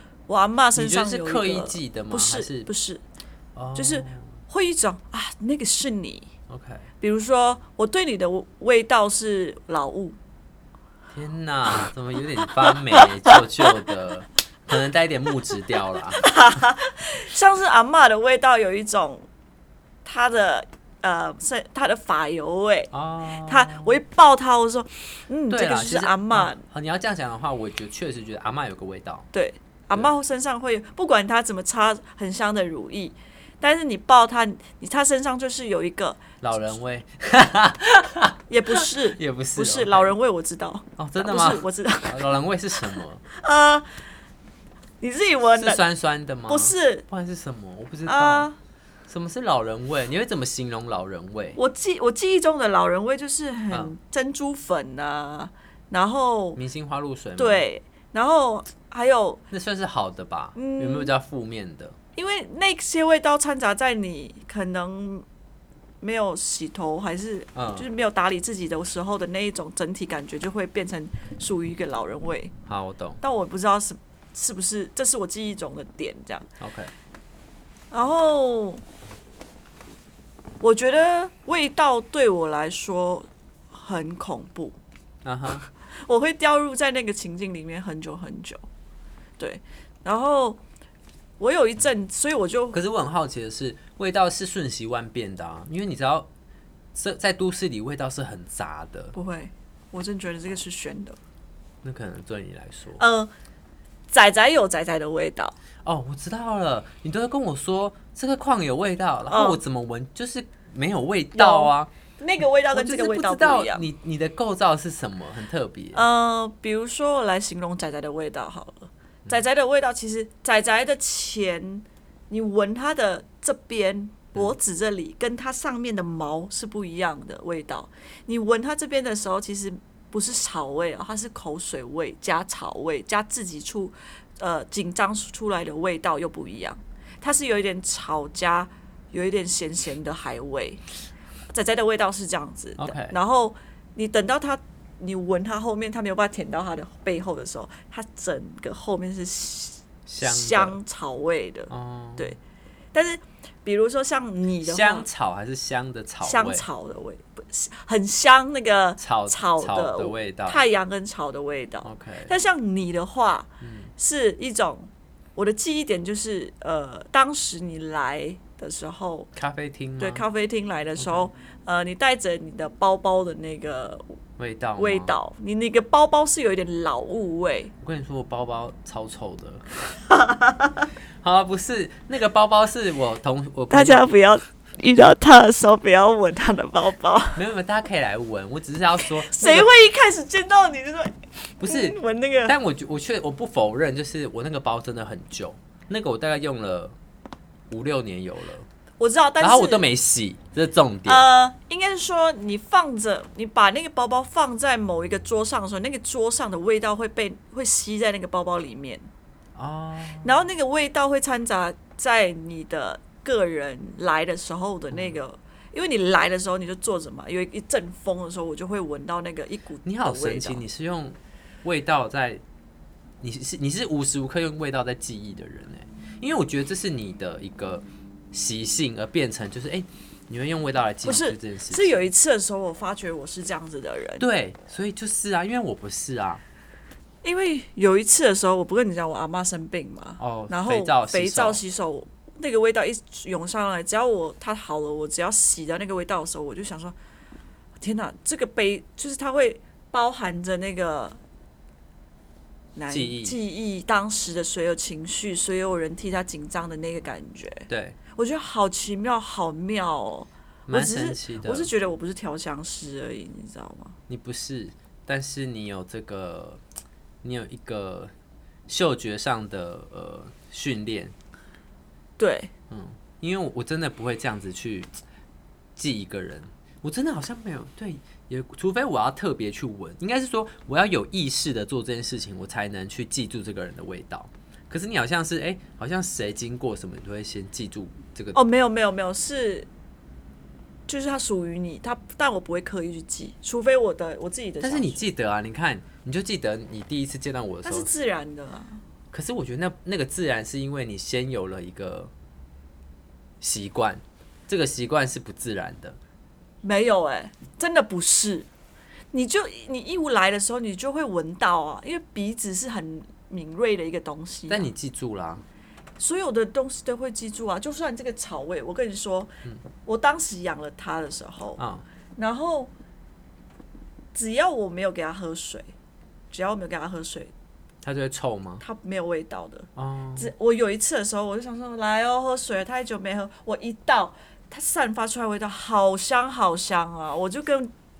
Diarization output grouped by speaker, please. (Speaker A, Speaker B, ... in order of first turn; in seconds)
Speaker A: 0.3-3.0, 3.8-6.3, 7.0-10.2, 12.6-13.4, 16.2-19.3, 20.1-22.9, 23.4-26.6, 29.3-36.4, 38.5-42.2, 43.0-44.1, 45.0-45.8, 46.5-47.0, 48.1-48.6, 51.6-56.6, 57.4-59.4, 60.5-61.1, 62.1-65.3, 66.0-72.5, 73.2-76.5, 77.9-78.8, 80.6-84.8, 85.8-88.7, 89.4-90.6, 91.4-92.8, 99.1-101.2, 103.0-103.3, 104.1-105.6, 109.3-109.6, 111.3-113.9, 115.9-140.8, 141.5-152.4, 152.9-155.1, 156.2-169.3, 170.0-174.2, 174.8-177.7, 180.1-180.9, 183.7-187.4, 189.0-192.6, 199.0-199.8, 201.1-209.1, 210.2-220.6, 231.0-234.2, 237.2-247.0, 247.8-251.2, 252.8-264.0, 272.2-272.5, 288.3-289.7, 290.9-295.0, 297.6-298.8, 306.6-308.5, 309.1-314.7, 316.0-319.3, 319.8-321.6, 322.2-322.7, 324.1-325.7, 326.3-327.3, 328.6-337.7
Speaker B: 0.8-2.7, 3.5-4.4, 6.5-6.9, 11.1-16.3, 22.9-24.0, 25.5-29.3, 36.4-40.1, 41.0-43.2, 45.6-48.5, 49.1-51.6, 56.6-57.7, 59.5-62.0, 67.5-67.9, 72.7-73.2, 76.6-76.9, 85.2-85.7, 92.7-96.3, 97.0-99.2, 101.8-103.0, 105.8-111.9, 112.7-116.0, 142.8-143.2, 150.1-150.8, 151.7-152.4, 154.6-156.7, 159.0-160.6, 161.8-162.3, 163.6-163.9, 169.4-170.3, 171.0-171.3, 174.4-175.2, 177.8-179.8, 181.2-184.1, 187.3-189.7, 191.6-197.0, 197.7-198.7, 199.4-201.2, 209.6-210.3, 214.9-215.2, 219.8-222.4, 223.2-232.0, 234.2-236.4, 240.2-241.6, 252.9-253.4, 257.7-258.0, 260.7-261.7, 264.1-266.6, 267.2-268.1, 268.7-271.1, 272.7-274.9, 275.8-288.4, 294.6-297.9, 299.1-302.1, 303.4-306.0, 314.5-315.4, 321.6-321.9, 327.8-328.6, 329.8-330.3